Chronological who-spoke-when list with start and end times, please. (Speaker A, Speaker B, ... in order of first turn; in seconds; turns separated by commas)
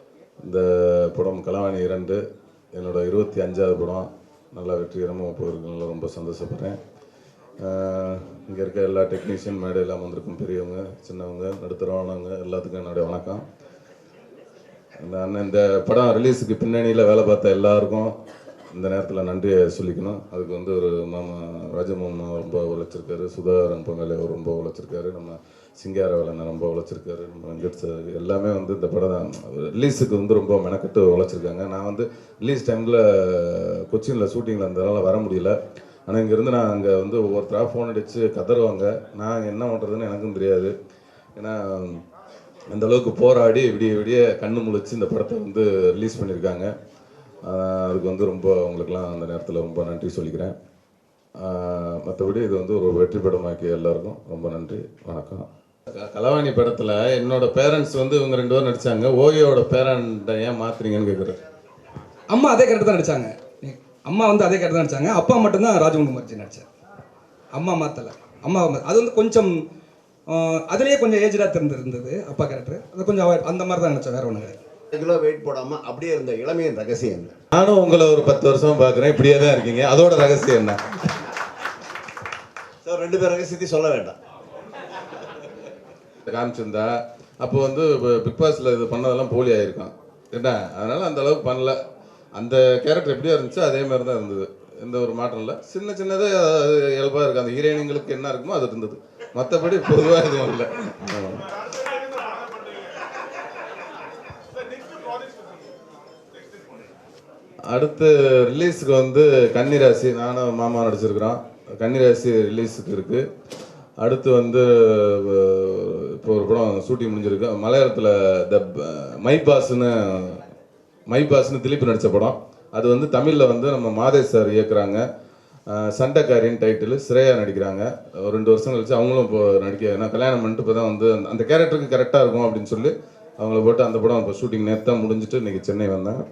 Speaker A: 0.4-2.2, Speaker A: 2.7-6.8, Speaker A: 7.6-13.4, Speaker A: 15.0-18.1, Speaker A: 18.7-35.5, Speaker A: 36.1-40.7, Speaker A: 41.4-42.0, Speaker A: 42.7-46.7, Speaker A: 47.5-50.5, Speaker A: 51.4-61.4, Speaker B: 62.3-66.7, Speaker B: 67.5-69.5, Speaker B: 70.3-74.5, Speaker C: 74.9-77.3, Speaker A: 77.5-80.8, Speaker C: 82.8-84.2, Speaker A: 86.3-91.8, Speaker A: 92.3-101.5, Speaker A: 107.7-113.2, Speaker A: 114.0-120.4, Speaker A: 121.1-125.0, Speaker A: 125.7-136.2